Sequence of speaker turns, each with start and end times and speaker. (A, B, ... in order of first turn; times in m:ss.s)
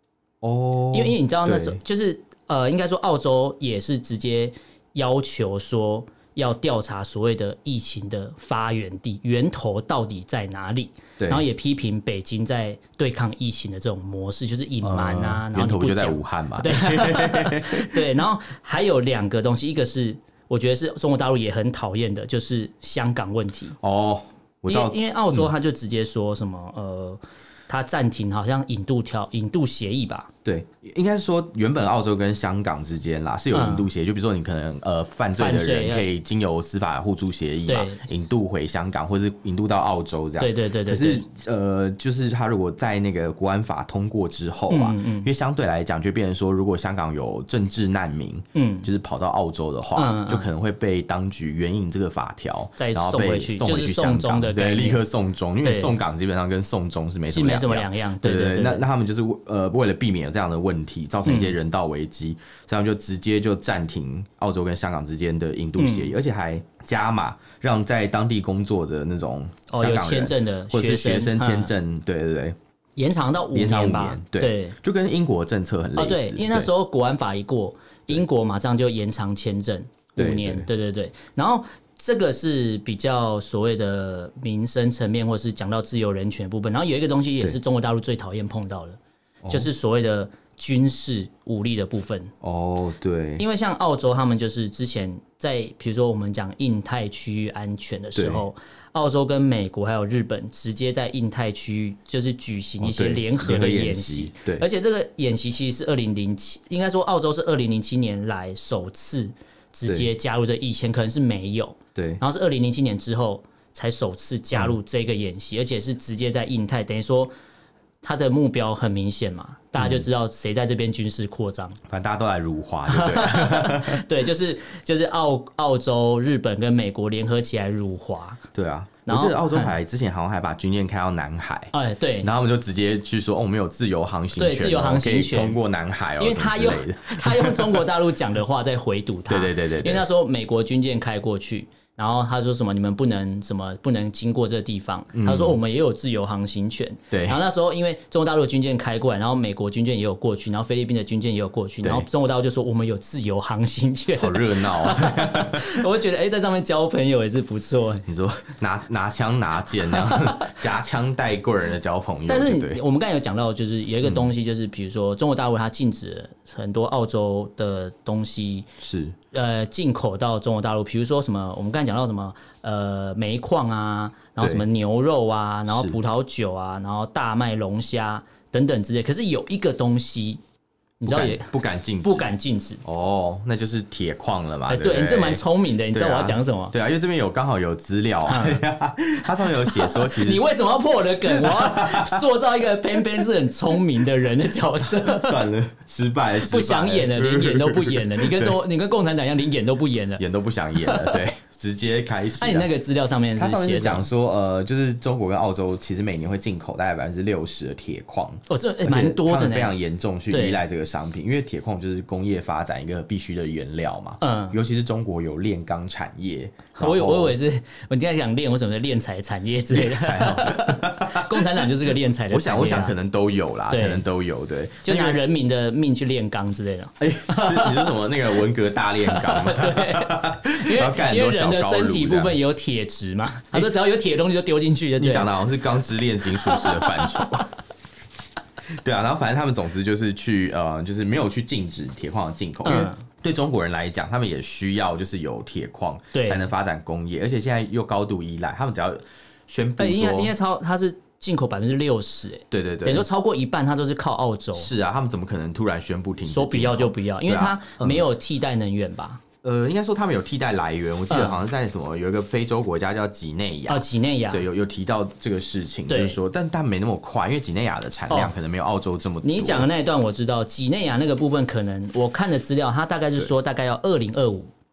0:00.4-0:01.8 A
0:00.9-0:23.8 B
0:11.2-0:11.4 A
0:14.8-0:18.0 A
0:23.8-0:25.5 A
0:24.7-0:30.3 B
0:30.4-1:12.6 A
0:33.5-0:33.9 B
0:35.4-0:36.1 B
0:37.7-0:38.0 B
0:40.4-0:41.2 B
0:44.7-0:45.3 B
0:48.5-0:48.9 B
0:50.0-0:50.5 B
0:52.8-0:55.0 B
0:55.6-0:55.9 B
0:57.3-0:58.8 B
1:01.2-1:01.5 B
1:05.8-1:06.1 B
1:09.7-1:11.7 B
1:13.0-1:14.8 B
1:13.5-1:16.7 A
1:16.0-1:29.0 B
1:20.2-1:20.7 A
1:29.4-1:29.7 A
1:29.5-1:32.3 B
1:32.4-1:33.4 A
1:33.4-1:57.3 B
1:38.1-1:38.4 A
1:42.8-1:44.6 A
1:51.9-1:52.2 A
1:58.0-2:01.8 B
1:59.8-2:00.1 A
2:01.9-2:04.0 A
2:02.9-2:08.4 B
2:08.5-2:17.9 A
2:09.0-2:09.7 B
2:11.7-2:12.3 B
2:14.4-2:15.6 B
2:16.2-2:38.0 B
2:19.3-2:20.0 A
2:25.1-2:25.6 A
2:27.1-2:27.4 A
2:34.2-2:35.8 A
2:38.1-2:42.8 A
2:39.9-2:40.6 B
2:42.3-2:48.7 B
2:44.0-2:44.3 A
2:48.8-2:49.2 A
2:49.3-3:00.4 B
2:54.4-2:54.6 A
2:55.7-2:56.0 A
3:01.0-3:02.8 B
3:01.0-3:02.3 A
3:02.8-3:10.5 A
3:04.7-3:06.7 B
3:08.2-3:08.6 B
3:09.6-3:15.4 B
3:11.2-3:12.2 A
3:14.9-3:18.6 A
3:16.4-3:20.2 B
3:20.2-3:22.7 A
3:20.8-3:21.2 B
3:22.4-3:24.1 B
3:23.4-3:37.4 A
3:28.5-3:29.7 B
3:30.3-3:30.6 B
3:34.2-3:34.6 B
3:36.8-3:42.9 B
3:39.7-3:41.7 A
3:42.3-3:45.2 A
3:43.7-3:44.0 B
3:44.8-3:48.0 B
3:47.0-3:52.4 A
3:49.0-3:55.3 B
3:55.0-3:57.5 A
3:56.4-3:57.2 B
3:58.7-4:10.3 A
4:02.6-4:03.0 B
4:06.1-4:06.5 B
4:09.8-4:14.7 B
4:12.5-4:13.1 A
4:14.5-4:18.0 A
4:16.2-4:19.2 B
4:19.4-4:29.7 A
4:21.1-4:21.4 B
4:23.7-4:24.4 B
4:25.9-4:26.2 B
4:29.2-4:34.5 B